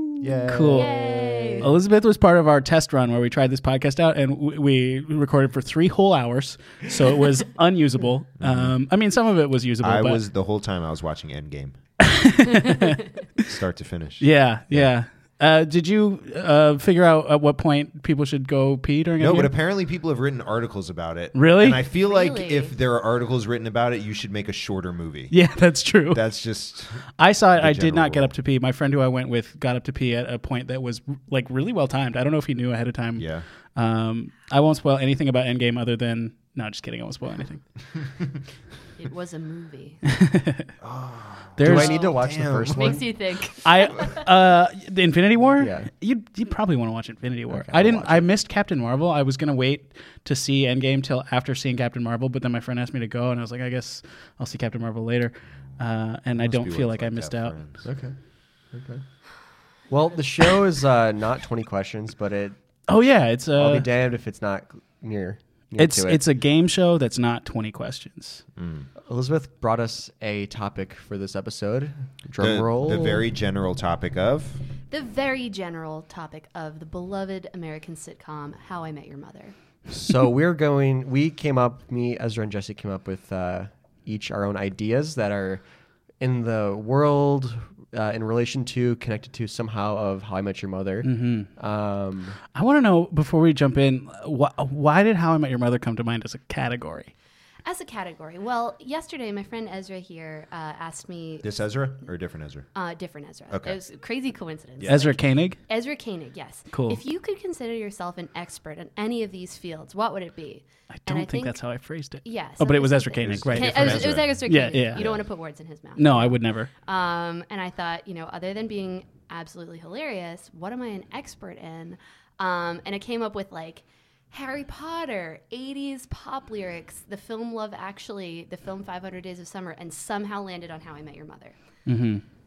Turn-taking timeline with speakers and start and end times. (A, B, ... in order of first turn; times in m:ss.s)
0:00.2-0:01.7 A
0:00.4-0:01.1 B
0:00.7-0:01.7 C
0:01.6-0:10.2 B
0:08.4-0:08.8 A
0:09.8-0:11.8 A
0:12.0-0:13.5 B
0:13.4-0:14.9 A
0:14.2-0:19.5 B
0:19.2-0:25.4 A
0:21.3-0:21.8 B
0:22.0-0:22.7 C
0:25.3-0:26.2 B
0:26.1-0:28.3 A
0:27.2-0:37.7 B
0:33.2-0:33.4 A
0:39.0-0:40.0 C
0:40.2-0:40.7 B
0:40.8-0:43.0 A
0:41.6-0:43.1 D
0:41.6-0:42.1 B
0:41.9-0:42.2 C
0:42.7-0:44.2 C
0:43.6-0:57.6 B
0:45.6-0:45.9 D
0:47.5-0:48.3 D
0:56.4-0:57.9 A
0:57.8-0:58.2 D
0:58.7-0:59.0 D
0:59.9-1:02.6 D
1:02.9-1:03.9 B
1:03.6-1:06.2 D
1:05.8-1:08.4 B
1:08.6-1:08.9 A
1:09.0-1:13.2 D
1:12.4-1:14.6 A
1:14.9-1:19.6 C
1:19.9-1:25.6 D
1:26.2-1:32.4 D
1:31.0-1:31.5 B
1:32.5-1:37.1 B
1:37.6-1:41.5 C
1:41.4-1:42.7 A
1:42.7-1:51.6 C
1:43.5-1:43.8 A
1:44.9-1:45.6 B
1:46.7-1:47.0 B
1:51.0-1:55.1 B
1:52.2-2:11.6 C
1:53.2-1:55.2 A
1:56.0-1:56.7 B
2:11.9-2:12.2 B